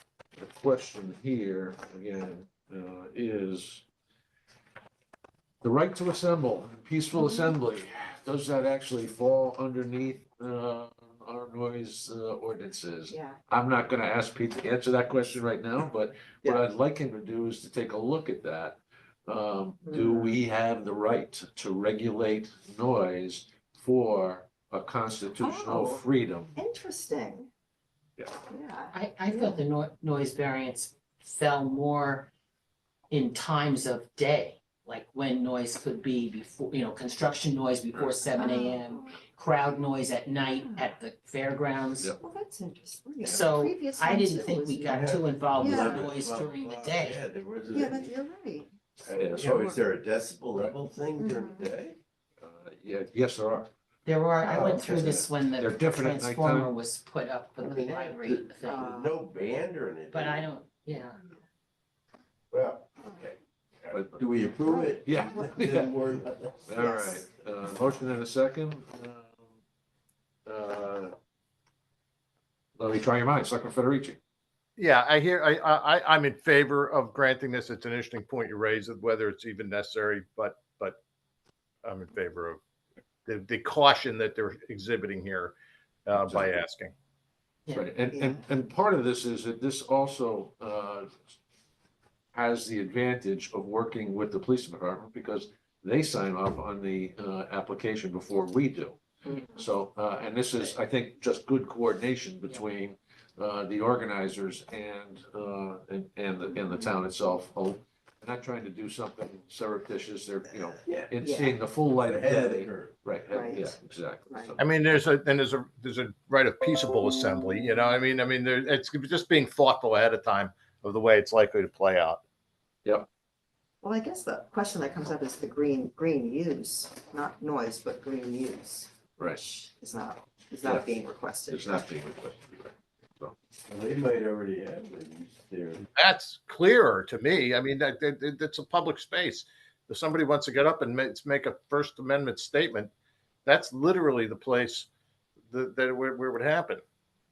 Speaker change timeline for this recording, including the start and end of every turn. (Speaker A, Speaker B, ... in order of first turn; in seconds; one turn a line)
Speaker A: 0.3-3.9
Speaker A: 5.6-26.5
Speaker B: 13.1-13.4
Speaker B: 19.9-20.4
Speaker B: 25.4-27.5
Speaker B: 28.5-29.6
Speaker C: 28.9-32.3
Speaker C: 33.1-42.1
Speaker A: 37.9-38.4
Speaker B: 38.4-39.1
Speaker B: 42.2-45.0
Speaker C: 43.2-47.2
Speaker D: 44.8-48.1
Speaker B: 45.6-46.1
Speaker A: 45.7-46.2
Speaker B: 47.7-48.7
Speaker D: 49.0-52.0
Speaker A: 49.1-49.8
Speaker B: 51.2-51.7
Speaker A: 52.4-53.7
Speaker C: 54.0-58.9
Speaker D: 54.4-55.2
Speaker A: 55.5-56.7
Speaker D: 57.6-60.5
Speaker B: 58.6-59.1
Speaker C: 60.1-61.2
Speaker D: 62.5-66.9
Speaker A: 63.9-64.2
Speaker B: 64.6-65.6
Speaker A: 65.0-65.9
Speaker A: 66.6-69.5
Speaker B: 66.8-67.2
Speaker A: 70.5-71.1
Speaker A: 72.8-74.2
Speaker E: 74.8-81.0
Speaker E: 81.8-82.6
Speaker E: 83.2-85.5
Speaker E: 86.0-86.9
Speaker A: 86.1-86.6
Speaker A: 87.7-91.3
Speaker B: 88.1-88.4
Speaker A: 92.3-114.6
Speaker D: 110.8-111.1
Speaker B: 111.2-111.5
Speaker D: 112.0-112.9
Speaker B: 113.3-113.8
Speaker B: 114.3-114.5
Speaker E: 114.6-122.2
Speaker B: 123.8-131.9
Speaker A: 129.2-129.4
Speaker A: 131.5-133.3
Speaker D: 133.7-135.8
Speaker E: 135.9-142.9
Speaker E: 143.4-144.9
Speaker E: 145.5-146.8